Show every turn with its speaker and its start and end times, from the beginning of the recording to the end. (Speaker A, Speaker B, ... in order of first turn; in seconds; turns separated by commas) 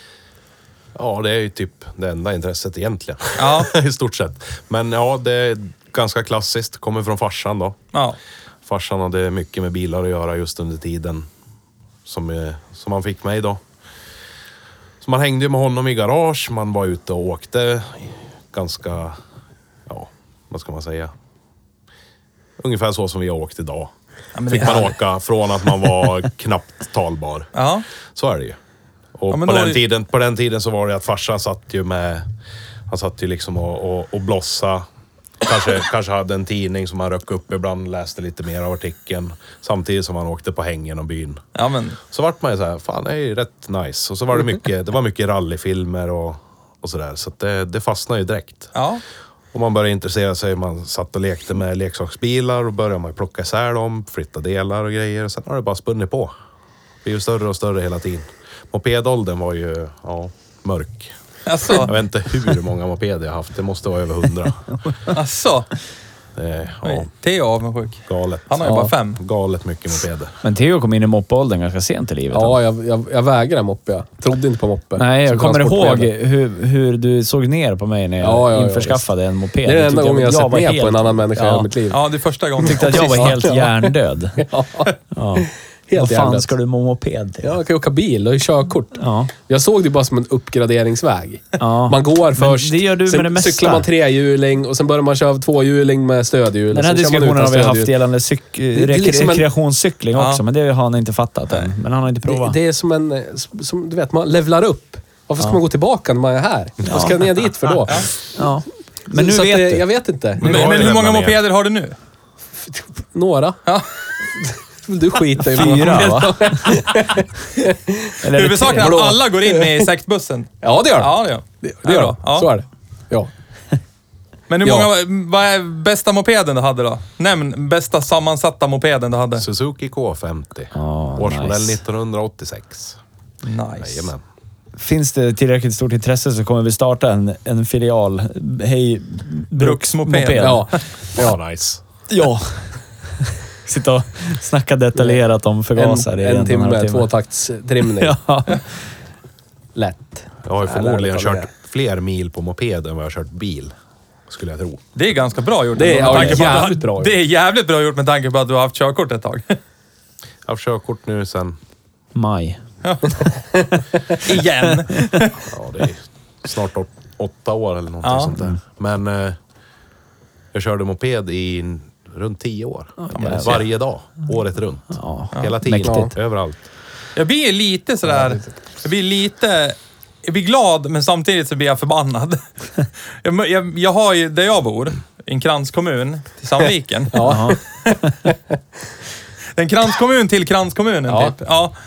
Speaker A: 0.9-7.8, Speaker B: 3.4-3.7, Speaker A: 8.7-11.3, Speaker A: 12.1-13.6, Speaker A: 15.0-19.2, Speaker A: 19.9-21.1, Speaker A: 22.6-23.9, Speaker B: 24.4-25.0, Speaker A: 24.5-27.5, Speaker B: 27.5-27.9, Speaker A: 28.1-28.6, Speaker A: 29.2-32.3, Speaker B: 29.3-29.8, Speaker A: 32.9-34.9, Speaker A: 35.4-41.4, Speaker B: 41.5-42.0, Speaker A: 42.1-48.7, Speaker B: 48.7-49.0, Speaker A: 49.5-56.3, Speaker A: 57.0-61.1, Speaker B: 61.5-62.0, Speaker A: 61.7-65.0, Speaker B: 65.1-65.7, Speaker A: 66.4-67.1, Speaker B: 66.8-69.2, Speaker A: 68.1-70.4, Speaker C: 70.4-72.6, Speaker D: 72.3-76.1, Speaker C: 75.0-81.7, Speaker D: 78.2-79.0, Speaker D: 79.7-82.0, Speaker B: 81.9-83.4, Speaker C: 82.6-84.5, Speaker D: 82.6-86.5, Speaker C: 85.1-87.6, Speaker D: 87.4-97.9, Speaker C: 89.0-89.3, Speaker C: 91.6-93.9, Speaker C: 96.7-102.6, Speaker D: 98.7-99.5, Speaker B: 100.2-100.4, Speaker D: 102.2-108.1, Speaker C: 106.9-107.2, Speaker C: 108.4-109.8, Speaker D: 109.1-110.7, Speaker A: 110.4-111.4, Speaker B: 110.4-112.0, Speaker D: 112.7-113.6, Speaker D: 114.3-119.9, Speaker C: 115.5-116.8, Speaker C: 118.2-119.1, Speaker B: 118.3-122.5, Speaker D: 120.6-123.3, Speaker B: 124.5-129.4, Speaker A: 129.4-133.0, Speaker C: 130.7-131.8, Speaker B: 133.4-134.1, Speaker A: 133.8-134.2, Speaker C: 134.8-140.7, Speaker B: 139.6-140.8, Speaker D: 140.4-141.4, Speaker A: 141.2-141.8, Speaker C: 142.1-147.1, Speaker D: 145.8-148.2, Speaker C: 147.8-148.6, Speaker D: 149.8-151.5, Speaker A: 150.4-153.7, Speaker A: 154.3-154.8, Speaker B: 154.9-159.6, Speaker D: 155.8-157.2, Speaker C: 156.0-156.7, Speaker A: 160.5-161.6, Speaker C: 162.2-162.6, Speaker B: 162.8-163.2, Speaker B: 164.2-165.4, Speaker A: 165.4-169.4, Speaker B: 168.0-168.4, Speaker A: 170.5-176.6, Speaker C: 173.0-173.6, Speaker B: 173.1-173.7, Speaker C: 174.9-176.1, Speaker D: 175.8-176.1, Speaker B: 177.2-187.9, Speaker D: 178.1-178.4, Speaker D: 187.1-187.6, Speaker C: 187.2-187.6, Speaker B: 189.6-191.7, Speaker D: 191.1-191.3